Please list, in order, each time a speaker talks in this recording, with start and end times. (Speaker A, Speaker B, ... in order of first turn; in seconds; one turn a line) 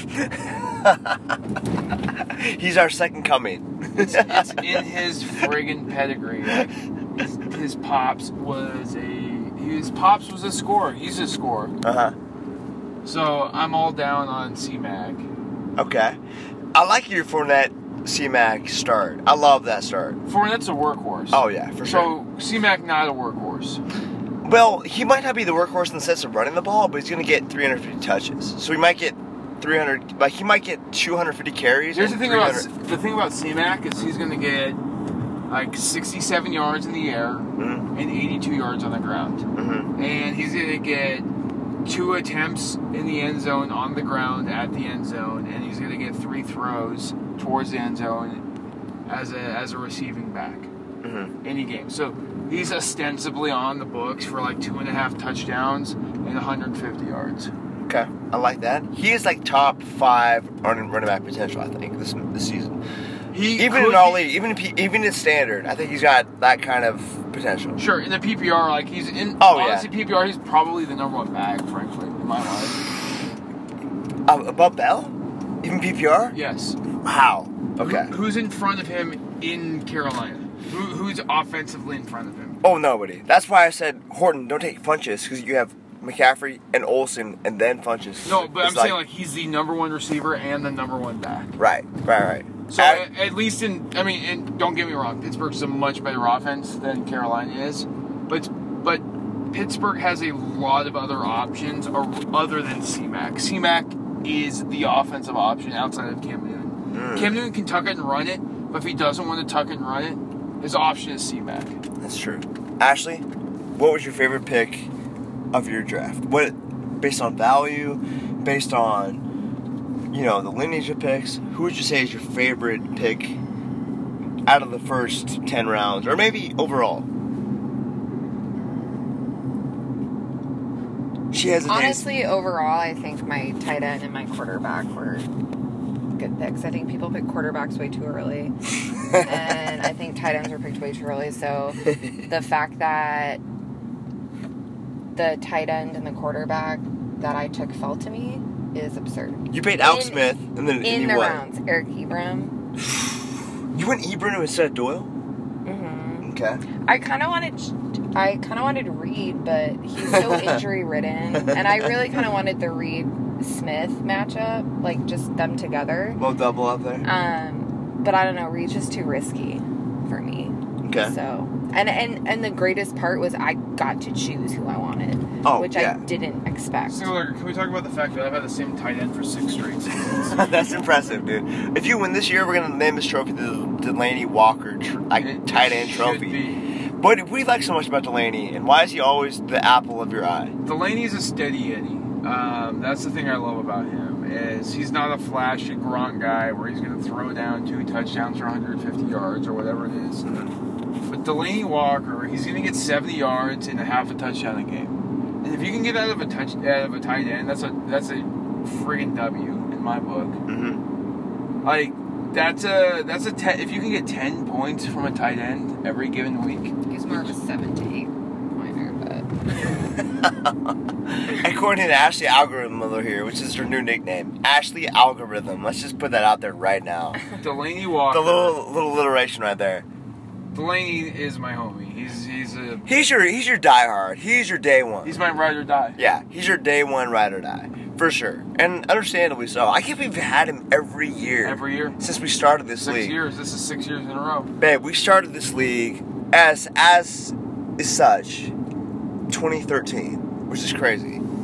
Speaker A: 0.3-1.2
Speaker A: 2.2-4.6
Speaker B: 4.0-11.8
Speaker A: 11.8-12.1
Speaker B: 13.0-15.2
Speaker A: 15.8-16.2
Speaker A: 16.7-20.2
Speaker B: 20.2-23.8
Speaker A: 21.3-22.1
Speaker A: 24.4-32.7
Speaker B: 31.9-34.8
Speaker B: 35.5-39.4
Speaker A: 37.6-37.9
Speaker A: 39.5-39.9
Speaker B: 40.0-41.3
Speaker B: 41.8-48.4
Speaker B: 49.1-50.7
Speaker A: 51.0-51.3
Speaker B: 51.4-57.5
Speaker A: 57.9-62.8
Speaker B: 63.3-64.3
Speaker A: 63.5-67.8
Speaker B: 67.8-72.8
Speaker A: 69.4-69.9
Speaker A: 74.3-76.3
Speaker B: 76.3-76.8
Speaker A: 77.0-78.1
Speaker B: 77.8-82.6
Speaker A: 82.6-89.0
Speaker B: 88.2-91.5
Speaker A: 91.6-93.0
Speaker B: 92.7-111.8
Speaker A: 106.9-107.4
Speaker A: 112.0-113.2
Speaker A: 113.8-114.9
Speaker A: 115.5-119.2
Speaker A: 120.1-123.4
Speaker A: 124.5-127.1
Speaker A: 131.3-132.1
Speaker C: 131.7-135.3
Speaker C: 136.2-138.5
Speaker C: 139.2-143.4
Speaker C: 145.1-152.6
Speaker A: 149.5-151.4
Speaker A: 153.7-155.1
Speaker C: 155.6-156.3
Speaker A: 156.2-156.6
Speaker C: 156.8-166.2
Speaker A: 166.2-167.1
Speaker C: 167.0-177.1
Speaker A: 170.8-171.1
Speaker A: 175.4-176.0
Speaker B: 176.9-180.4
Speaker A: 180.3-186.4
Speaker B: 185.1-186.6
Speaker A: 187.0-190.5
Speaker B: 190.6-200.2
Speaker A: 200.2-200.5
Speaker B: 201.0-210.4
Speaker A: 210.5-210.8
Speaker B: 211.6-217.3
Speaker C: 216.9-219.3
Speaker A: 220.0-220.5
Speaker A: 221.2-227.2
Speaker B: 227.4-228.6
Speaker A: 228.1-229.8
Speaker B: 230.5-232.9
Speaker A: 232.8-235.2
Speaker B: 235.0-236.0
Speaker A: 235.9-243.2
Speaker B: 241.4-242.0
Speaker B: 242.8-244.5
Speaker A: 244.6-248.5
Speaker A: 249.3-251.2